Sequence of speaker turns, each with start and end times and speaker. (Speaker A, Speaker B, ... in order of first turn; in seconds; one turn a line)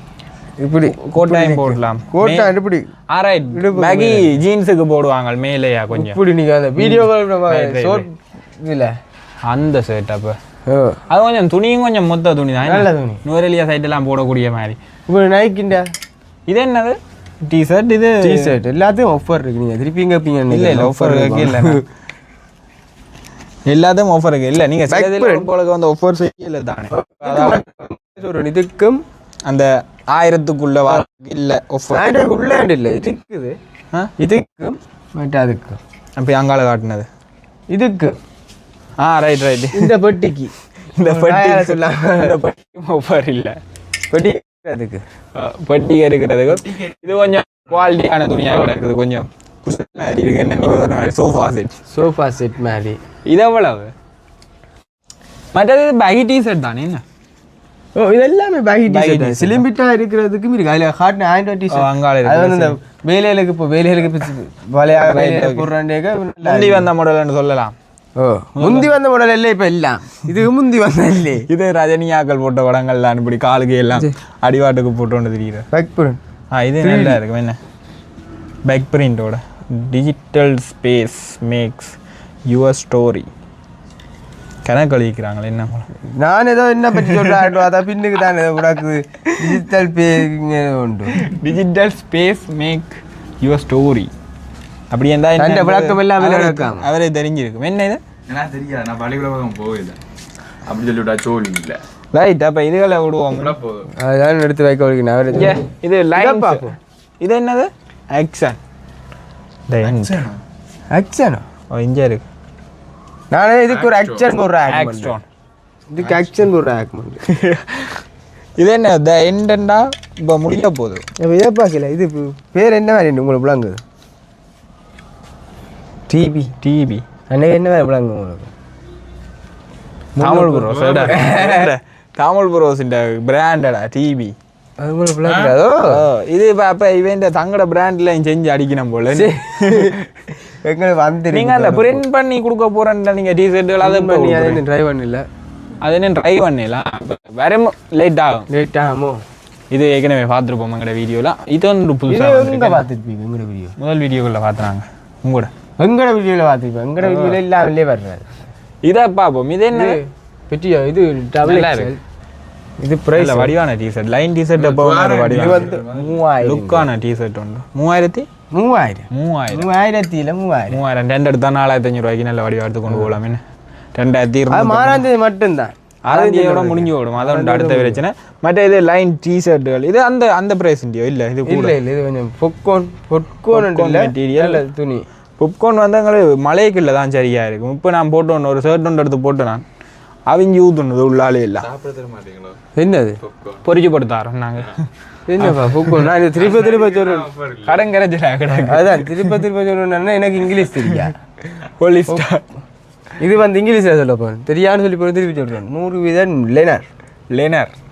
Speaker A: 0.6-2.9
Speaker B: 0.9-2.5
Speaker B: 3.1-6.2
Speaker A: 3.5-4.4
Speaker A: 5.9-8.9
Speaker B: 6.8-8.0
Speaker B: 9.4-10.4
Speaker A: 10.7-11.0
Speaker B: 11.1-14.8
Speaker A: 12.6-13.2
Speaker A: 15.1-15.9
Speaker B: 16.5-18.5
Speaker A: 18.2-21.8
Speaker B: 20.5-21.8
Speaker B: 23.6-27.6
Speaker A: 24.9-25.5
Speaker A: 26.9-29.0
Speaker B: 29.5-32.1
Speaker A: 31.9-33.6
Speaker A: 34.2-35.8
Speaker B: 36.2-37.1
Speaker A: 37.7-38.1
Speaker B: 39.0-39.9
Speaker A: 39.7-42.3
Speaker B: 40.9-43.6
Speaker A: 44.1-45.0
Speaker B: 45.3-51.8
Speaker C: 46.5-47.5
Speaker A: 51.9-53.0
Speaker B: 53.3-53.9
Speaker B: 55.5-57.0
Speaker A: 57.9-66.9
Speaker B: 58.9-59.6
Speaker B: 61.7-62.8
Speaker B: 64.9-65.7
Speaker B: 66.4-67.8
Speaker A: 68.2-71.5
Speaker B: 68.5-68.9
Speaker B: 71.5-75.7
Speaker A: 75.7-76.2
Speaker B: 76.5-77.6
Speaker A: 76.8-77.2
Speaker B: 78.7-82.0
Speaker B: 82.5-83.3
Speaker B: 84.6-85.9
Speaker A: 86.1-91.2
Speaker B: 87.0-87.6
Speaker B: 91.1-94.1
Speaker B: 94.9-98.0
Speaker A: 95.4-96.9
Speaker C: 98.3-100.0
Speaker C: 100.6-101.8
Speaker B: 102.1-103.5
Speaker C: 103.3-103.9
Speaker A: 104.0-105.6
Speaker B: 105.3-108.6
Speaker A: 106.1-106.8
Speaker B: 109.7-110.2
Speaker C: 109.8-110.4
Speaker A: 110.9-111.4
Speaker B: 111.7-112.2
Speaker A: 113.3-115.2
Speaker C: 113.7-114.3
Speaker B: 114.7-115.2
Speaker A: 115.9-117.2
Speaker C: 116.0-116.3
Speaker B: 117.3-118.0
Speaker B: 118.6-121.0
Speaker A: 121.2-123.8
Speaker A: 126.1-126.5
Speaker B: 126.6-127.0
Speaker A: 127.3-128.5
Speaker A: 130.2-131.7
Speaker B: 130.2-134.3
Speaker C: 130.7-131.3
Speaker A: 134.8-136.1
Speaker C: 135.2-135.6
Speaker B: 135.9-140.0
Speaker A: 139.1-142.0
Speaker B: 141.3-144.6
Speaker A: 143.8-145.2
Speaker B: 145.8-148.5
Speaker A: 148.5-149.2
Speaker B: 149.7-152.8
Speaker A: 152.1-153.8
Speaker B: 153.8-155.5
Speaker A: 155.8-158.3
Speaker B: 157.0-157.4
Speaker B: 158.8-160.0
Speaker A: 159.7-162.0
Speaker B: 161.4-161.9
Speaker A: 162.8-163.6
Speaker B: 163.2-165.7
Speaker C: 164.6-166.2
Speaker A: 165.2-166.9
Speaker B: 166.4-168.3
Speaker A: 168.5-170.8
Speaker B: 169.1-169.7
Speaker B: 170.7-173.4
Speaker A: 172.9-173.1
Speaker B: 173.9-175.0
Speaker A: 174.5-178.0
Speaker B: 176.1-181.8
Speaker A: 181.4-185.0
Speaker B: 183.5-184.6
Speaker B: 185.4-189.6
Speaker B: 190.3-191.7
Speaker C: 191.6-192.6
Speaker A: 192.8-193.2
Speaker C: 193.2-193.6
Speaker B: 193.6-194.9
Speaker A: 195.3-197.3
Speaker B: 195.4-196.1
Speaker C: 196.3-197.9
Speaker B: 197.7-199.4
Speaker A: 198.6-201.1
Speaker B: 201.5-202.4
Speaker A: 203.2-206.9
Speaker B: 207.3-207.7